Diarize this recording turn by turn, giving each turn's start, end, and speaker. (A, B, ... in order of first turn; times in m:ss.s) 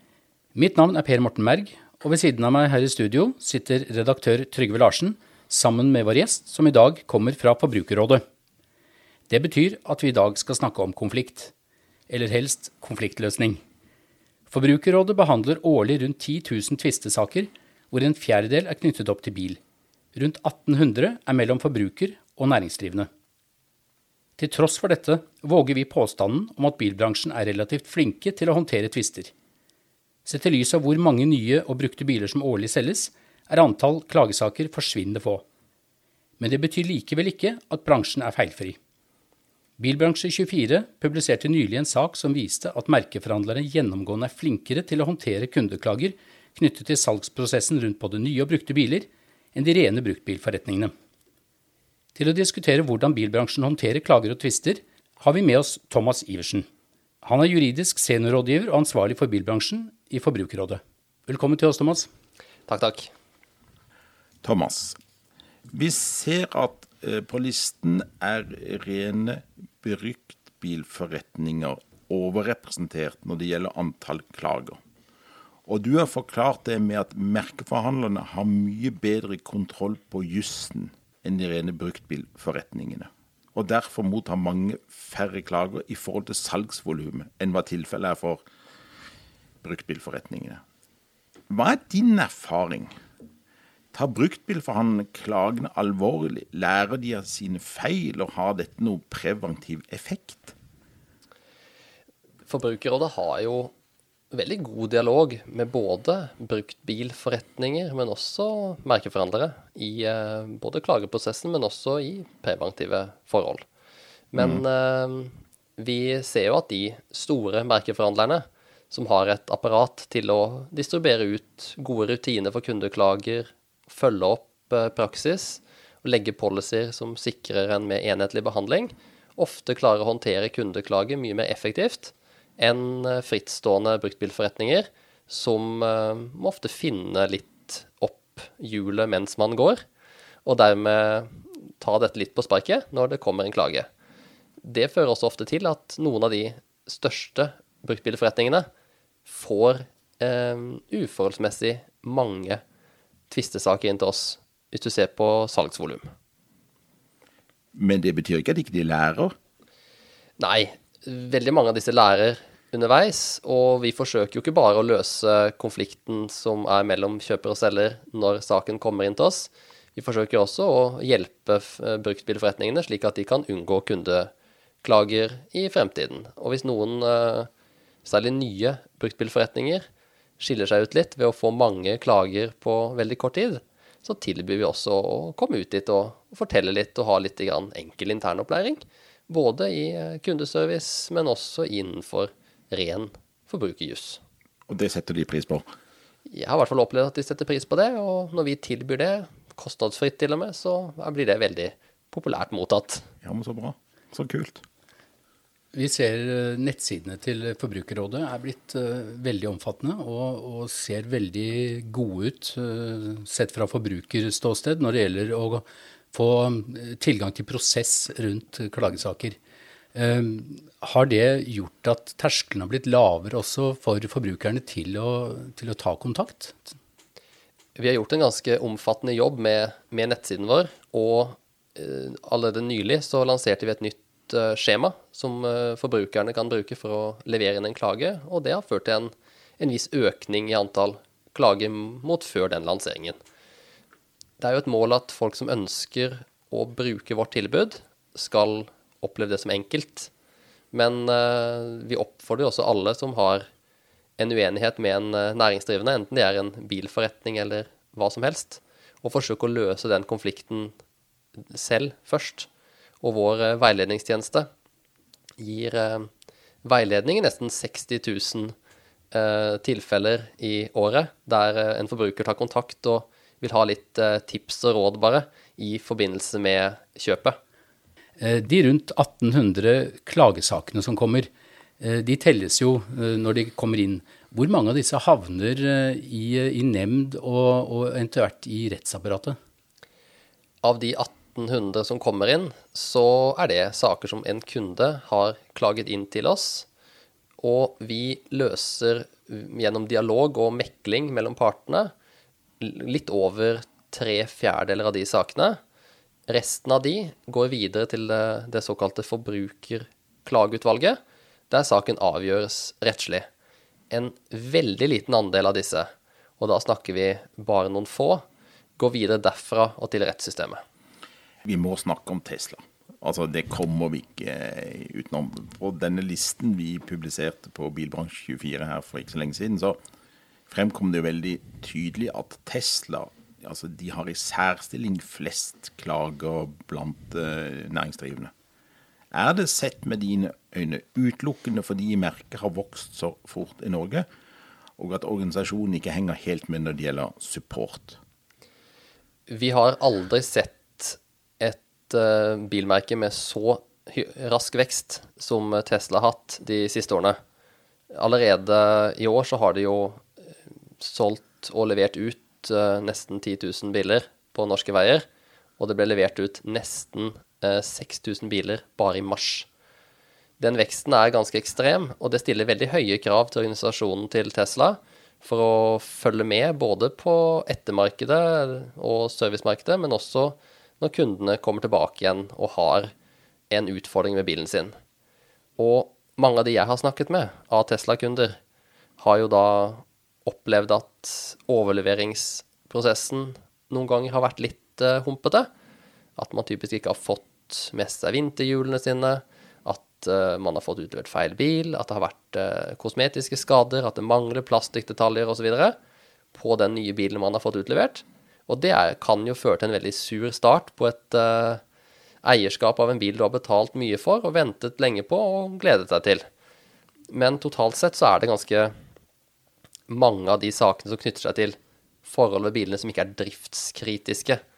0:00.5-0:08.2 A
0:09.3-0:11.5 A
0:12.1-0:13.6 A
0:14.5-0:19.6 A
0:20.1-0:23.1 A
0:24.4-0:29.3 A
0:30.2-0:35.4 A
0:36.4-0:38.8 A
0:39.8-0:50.9 A
0:52.1-0:56.7 A
0:57.2-1:02.1 A
1:02.7-1:03.1 B
1:04.4-1:05.0 C
1:05.7-1:14.8 C
1:15.6-1:28.4 C
1:29.6-1:30.6 C
1:31.5-1:32.9 C
1:33.9-1:40.6 C
1:42.5-1:43.7 B
1:44.3-1:53.6 B
1:54.3-2:19.8 B
1:54.4-1:54.6 C
2:20.4-2:23.9 B
2:24.6-2:28.7 B
2:29.2-2:32.6 B
2:33.3-2:36.1 B
2:37.7-2:39.3 C
2:40.4-2:54.3 B
2:54.8-2:57.5 B
2:58.0-2:59.8 B
3:00.4-3:14.2 B
3:14.7-3:15.6 C
3:16.3-3:23.1 B
3:23.2-3:24.6 C
3:25.7-3:39.4 A
3:39.9-3:46.8 A
3:47.8-4:03.2 B
4:04.4-4:10.1 B
4:10.7-4:13.5 B
4:14.2-4:20.7 B
4:21.4-4:22.5 B
4:23.0-4:24.5 B
4:25.4-4:26.1 B
4:26.6-4:28.5 B
4:29.1-4:37.4 B
4:38.2-4:41.3 A
4:41.8-4:49.4 A
4:50.6-4:56.6 B
4:57.4-5:01.9 B
5:02.6-5:05.6 B
5:06.3-5:11.0 B
5:11.5-5:13.3 B
5:13.9-5:18.2 B
5:18.8-5:20.6 B
5:21.4-5:29.8 C
5:30.5-5:38.3 C
5:39.1-5:44.0 C
5:44.8-5:48.0 C
5:49.3-5:57.2 B
5:57.9-6:00.1 B
6:00.8-6:05.0 B
6:05.6-6:09.5 B
6:10.4-6:22.9 B
6:23.5-6:24.7 B
6:25.6-6:28.4 B
6:29.0-6:35.5 B
6:36.2-6:45.8 B
6:46.3-6:51.6 B
6:52.2-6:56.3 B
6:57.1-6:58.7 B
6:59.9-7:04.4 B